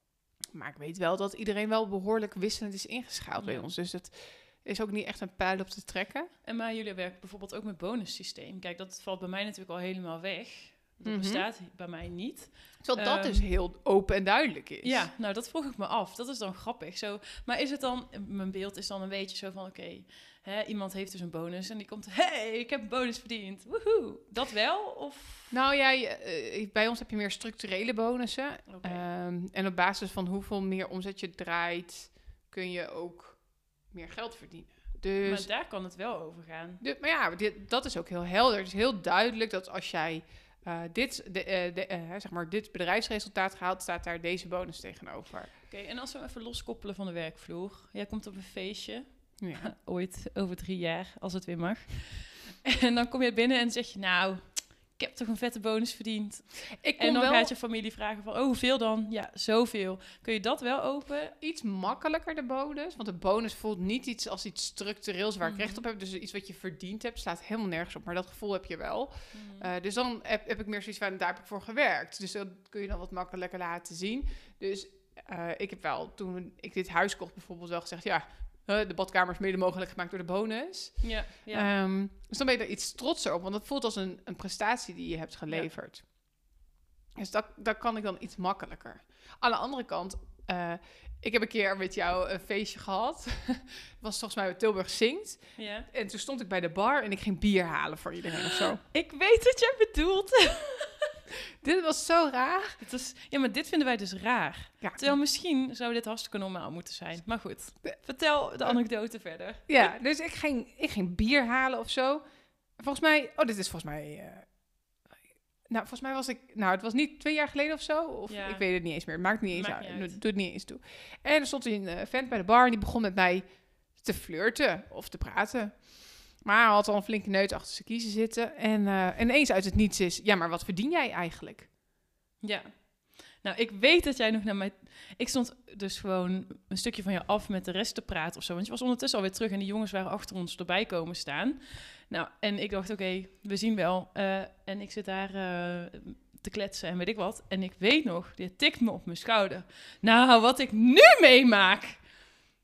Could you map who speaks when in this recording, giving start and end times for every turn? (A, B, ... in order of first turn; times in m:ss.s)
0:00.5-0:06.3 A
0:03.4-0:03.7 B
0:06.4-0:13.5 B
0:11.0-0:11.5 A
0:12.8-0:15.1 A
0:14.8-0:25.5 B
0:25.5-0:35.5 A
0:28.7-0:29.0 B
0:35.2-0:36.8 B
0:36.8-0:45.5 A
0:45.7-1:01.4 B
0:49.4-0:49.7 A
0:56.8-0:57.5 A
1:01.4-1:26.4 A
1:05.4-1:05.8 B
1:09.3-1:09.7 B
1:21.0-1:21.7 B
1:27.2-1:38.8 A
1:35.6-1:35.9 B
1:38.9-1:41.1 B
1:41.6-1:42.8 A
1:42.8-1:49.9 B
1:44.8-1:45.1 A
1:49.7-1:52.2 A
1:52.8-1:54.6 A
1:55.7-2:11.7 A
1:58.3-1:58.6 B
1:59.5-2:00.2 B
2:12.4-2:32.1 B